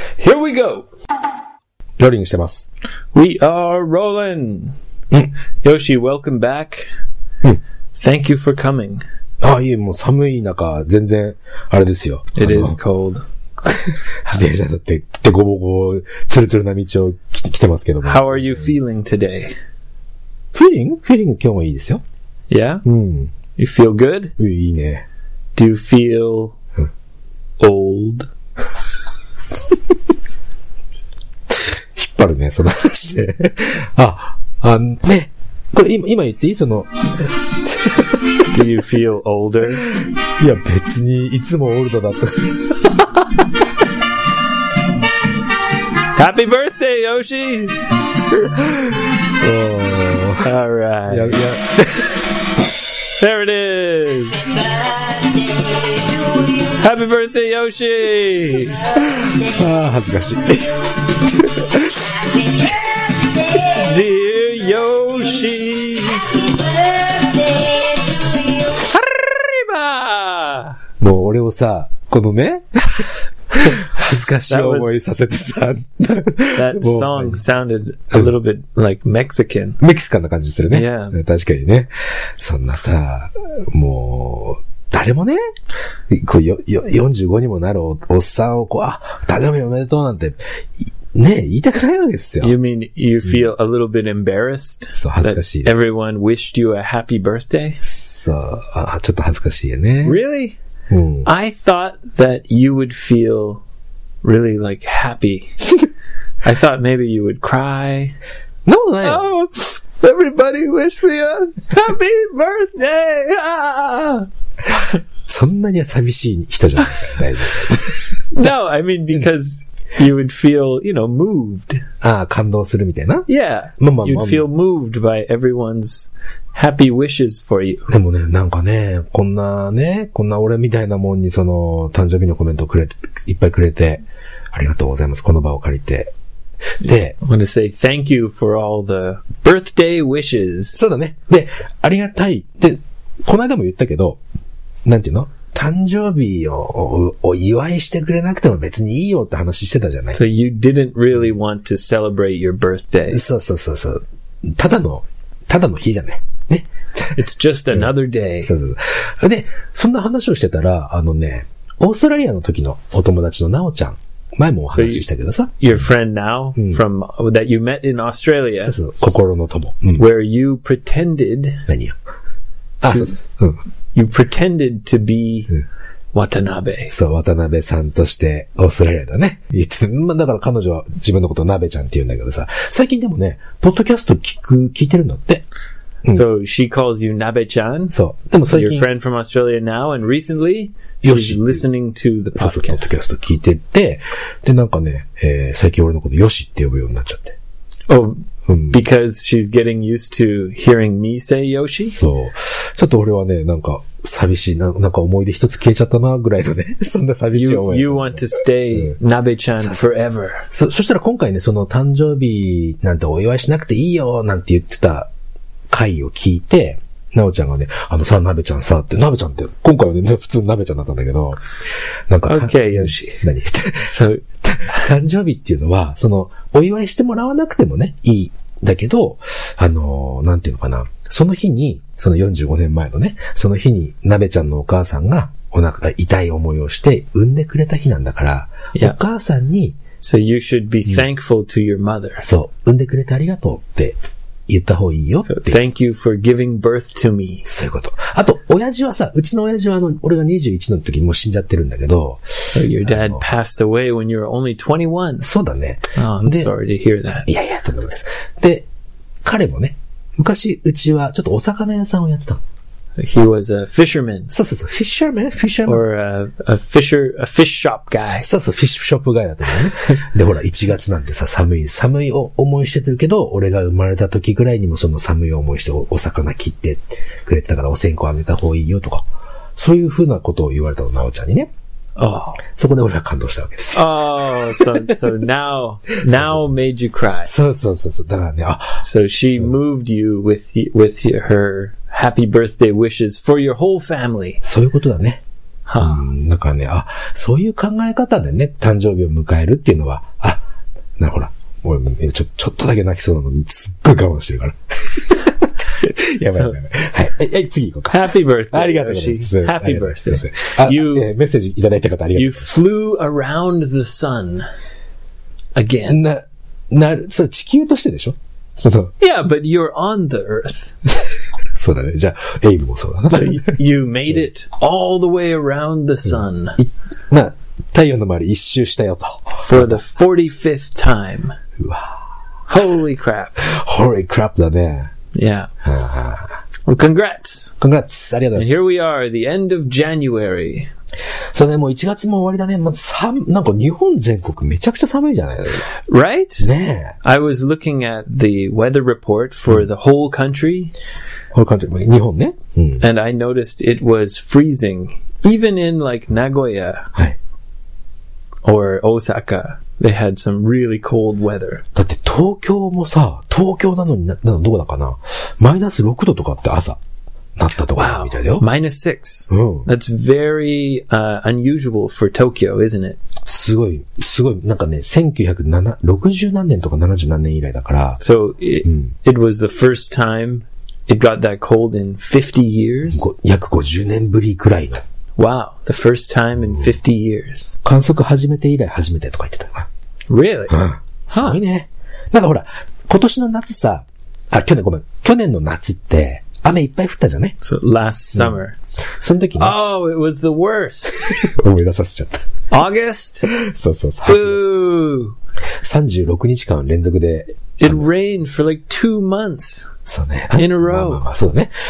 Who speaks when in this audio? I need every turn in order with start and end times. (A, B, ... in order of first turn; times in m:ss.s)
0:00.2-0:00.9 A
0:02.0-0:02.7 B
0:03.1-0:04.7 A
0:05.6-0:06.9 A
0:08.0-0:09.0 A
0:09.4-0:12.8 B
0:12.3-0:13.2 A
0:13.6-0:18.7 B
0:18.0-0:19.5 A
0:20.5-0:22.0 B
0:22.5-0:22.8 A
0:22.8-0:23.3 B
0:23.6-0:24.3 A
0:24.4-0:25.0 B
0:25.6-0:26.6 A
0:27.6-0:28.3 A
0:31.5-0:38.2 B
0:38.5-0:39.9 A
0:39.9-0:43.5 B
0:46.1-0:47.8 A
0:48.6-0:50.5 B
0:50.4-0:51.4 A
0:51.1-0:52.3 B
0:53.1-0:54.6 A
0:56.6-0:59.0 A
0:59.0-1:02.6 B
1:03.5-1:06.5 A
1:08.7-1:10.8 A
1:11.0-1:17.4 B
1:14.5-1:15.0 A
1:16.5-1:19.8 A
1:19.8-1:25.4 B
1:20.7-1:21.2 A
1:26.1-1:32.6 B
1:32.4-1:37.8 A
1:34.9-1:35.8 B
1:37.8-1:40.2 B
1:40.0-1:40.6 A
1:40.9-1:41.3 B
1:41.2-1:43.6 A
1:44.2-1:45.7 A
1:46.4-1:48.2 A
1:48.6-1:49.3 B
1:49.0-1:54.9 A
1:55.2-1:58.4 B
1:58.3-2:01.8 A
2:02.0-2:03.3 B
2:03.3-2:07.9 A
2:03.8-2:04.4 B
2:07.9-2:16.1 B
2:16.8-2:17.2 B
2:17.2-2:20.8 A
2:20.7-2:24.2 B
2:24.8-2:30.2 B
2:30.1-2:33.2 A
2:33.1-2:37.2 B
2:37.2-2:38.5 A
2:38.4-2:45.5 B
2:44.7-2:45.1 A
2:45.6-2:48.8 A
2:46.6-2:46.8 B
2:48.6-2:50.0 B
2:50.0-2:51.6 A
2:51.7-2:52.0 B
2:52.8-2:53.6 B
2:52.9-2:53.2 A
2:53.9-2:55.5 A
2:56.1-2:56.9 A
2:56.9-3:05.4 B
3:06.1-3:07.9 A
3:07.9-3:08.9 B
3:08.5-3:12.9 A
3:11.0-3:11.6 B
3:12.4-3:17.4 B
3:17.9-3:22.0 A
3:18.5-3:18.8 B
3:21.8-3:29.0 B
3:27.3-3:30.4 A
3:30.5-3:35.1 B
3:35.7-3:41.4 B
3:42.1-3:59.8 B
3:42.3-3:43.2 A
3:43.8-3:44.2 A
4:00.0-4:02.2 A
4:02.2-4:05.6 B
4:05.2-4:07.4 A
4:07.4-4:13.2 B
4:12.5-4:15.3 A
4:15.2-4:16.5 B
4:15.9-4:17.3 A
4:17.2-4:18.7 B
4:19.2-4:22.4 B
4:23.0-4:24.3 A
4:24.3-4:25.8 B
4:25.6-4:28.3 A
4:28.2-4:41.5 B
4:42.0-4:42.4 A
4:42.5-4:45.0 B
4:43.7-4:47.3 A
4:46.1-4:46.5 B
4:47.2-4:48.8 B
4:48.8-4:54.4 A
4:54.4-4:55.2 B
4:55.7-4:56.0 A
4:55.8-5:00.4 B
5:01.0-5:12.5 B
5:06.3-5:06.6 A
5:07.9-5:11.1 A
5:12.1-5:14.4 A
5:15.6-5:16.0 A
5:15.9-5:18.9 B
5:19.0-5:20.7 A
5:21.4-5:23.6 B
5:23.1-5:26.6 A
5:26.0-5:29.8 B
5:29.4-5:31.3 A
5:31.6-5:32.0 B
5:32.5-5:33.5 A
5:33.4-5:34.9 B
5:35.1-5:35.5 A
5:35.6-5:36.4 B
5:36.6-5:37.6 A
5:37.6-5:38.6 B
5:38.3-5:40.7 A
5:41.3-5:45.7 B
5:45.7-5:46.5 A
5:46.4-5:47.0 B
5:47.0-5:50.7 A
5:51.3-5:52.8 B
5:52.8-5:56.9 A
5:58.4-6:01.6 A
6:01.7-6:06.8 B
6:07.4-6:08.4 B
6:07.7-6:13.0 A
6:09.3-6:09.7 B
6:13.2-6:18.0 B
6:18.0-6:23.1 A
6:18.6-6:18.9 B
6:22.9-6:24.8 B
6:25.2-6:27.6 A
6:27.6-6:29.7 B
6:30.1-6:31.4 A
6:30.5-6:37.4 B
6:37.4-6:38.6 A
6:39.0-6:39.6 B
6:39.4-6:41.3 A
6:41.0-6:42.2 B
6:42.5-6:43.3 A
6:43.2-6:44.4 B
6:44.0-6:45.2 A
6:45.6-6:47.8 B
6:47.6-6:49.7 A
6:49.9-6:51.5 B
6:50.4-6:51.0 A